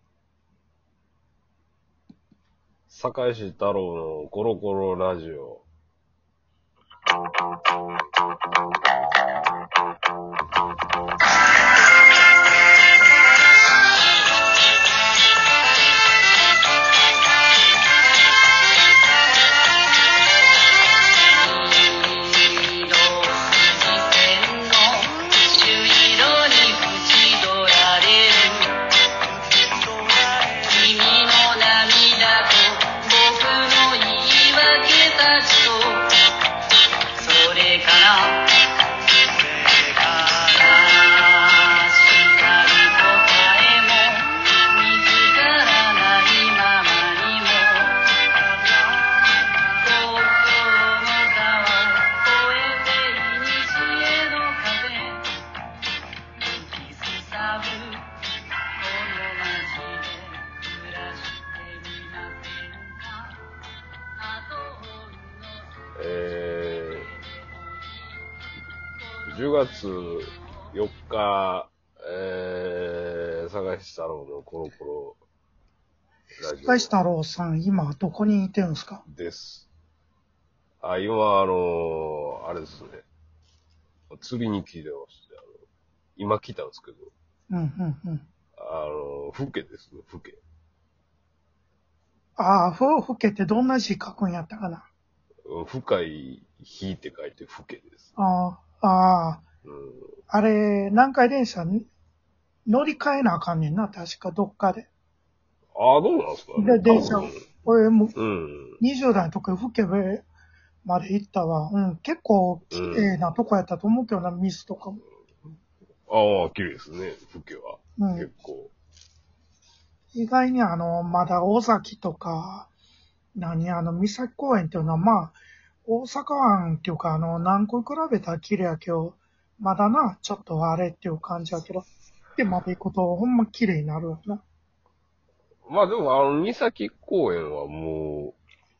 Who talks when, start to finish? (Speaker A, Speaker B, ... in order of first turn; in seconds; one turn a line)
Speaker A: 2.9-5.6
Speaker B: 21.3-28.8
Speaker B: 30.1-36.1
Speaker B: 37.2-38.6
Speaker B: 39.5-55.3
Speaker B: 56.5-58.0
Speaker B: 58.8-63.4
Speaker B: 64.2-65.7
Speaker A: 66.0-67.1
Speaker B: 66.9-68.2
Speaker B: 69.0-70.4
Speaker A: 69.2-75.2
Speaker A: 76.4-76.9
Speaker C: 76.6-79.0
Speaker A: 79.1-79.7
Speaker A: 80.8-83.0
Speaker A: 84.1-85.5
Speaker A: 86.2-87.1
Speaker C: 87.5-88.2
Speaker A: 88.6-90.4
Speaker C: 92.4-94.9
Speaker A: 95.5-98.1
Speaker C: 98.2-99.4
Speaker A: 99.6-100.1
Speaker C: 100.3-101.9
Speaker C: 102.7-104.9
Speaker A: 105.8-107.4
Speaker C: 106.5-108.2
Speaker A: 108.2-108.8
Speaker C: 108.8-110.2
Speaker C: 110.8-115.0
Speaker A: 112.7-113.1
Speaker A: 116.1-118.7
Speaker C: 118.0-118.3
Speaker C: 120.1-122.7
Speaker C: 123.3-134.4
Speaker A: 135.7-138.4